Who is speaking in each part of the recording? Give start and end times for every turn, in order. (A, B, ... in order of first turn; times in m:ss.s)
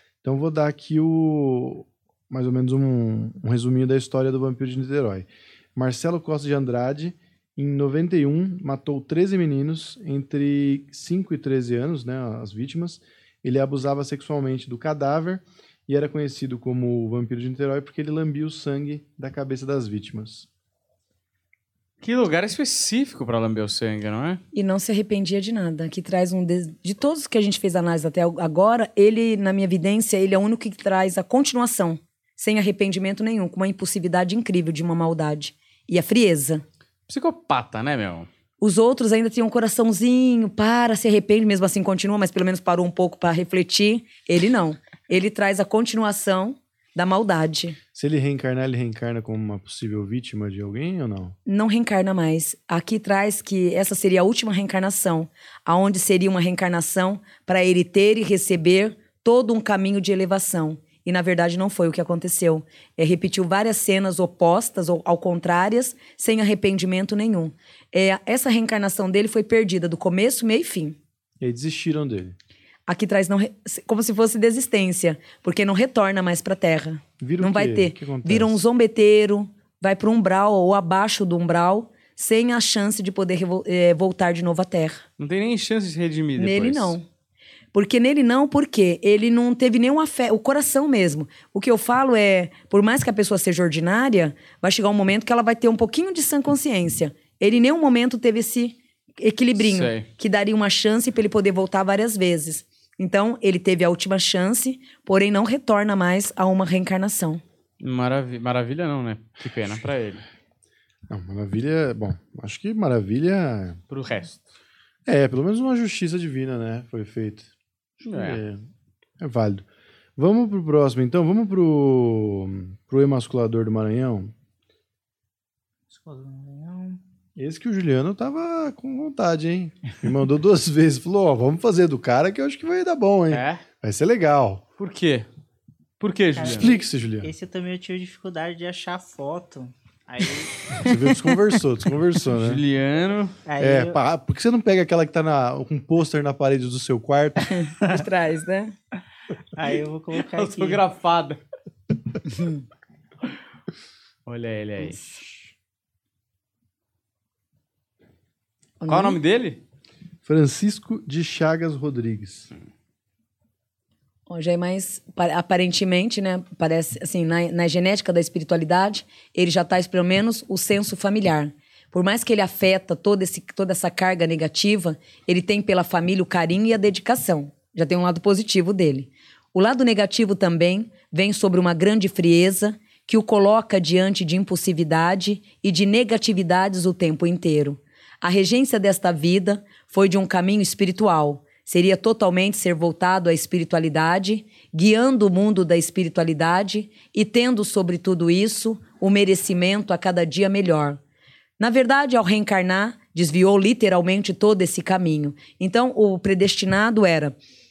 0:00.2-0:20.5 A
0:22.0-0:24.4 B
0:24.5-0:36.6 C
0:37.1-0:38.3 B
0:38.6-0:47.8 C
0:47.9-0:51.4 A
0:51.5-1:11.0 C
1:11.4-1:12.4 A
1:12.9-1:25.0 C
1:17.2-1:18.6 A
1:25.2-1:27.0 B
1:26.4-1:27.1 C
1:27.7-1:47.4 C
1:39.6-1:40.1 B
1:47.8-1:50.2 B
1:51.1-1:53.8 A
1:53.9-1:54.5 B
1:55.1-1:58.6 A
1:58.1-1:58.4 B
1:59.2-1:59.6 A
2:00.2-2:04.3 A
2:05.9-2:07.0 D
2:07.4-2:14.6 A
2:13.3-2:13.6 B
2:14.8-2:15.3 B
2:16.0-2:16.8 B
2:16.4-2:20.7 D
2:16.5-2:17.3 A
2:20.8-2:22.6 A
2:22.3-2:23.4 B
2:23.5-2:24.0 D
2:23.6-2:27.6 A
2:27.5-2:28.7 C
2:29.6-2:30.8 D
2:30.3-2:31.4 B
2:32.3-2:32.6 C
2:34.3-2:35.2 B
2:38.8-2:39.2 C
2:38.9-2:39.6 B
2:40.2-2:42.5 A
2:44.3-3:21.0 C
3:21.6-3:27.4 C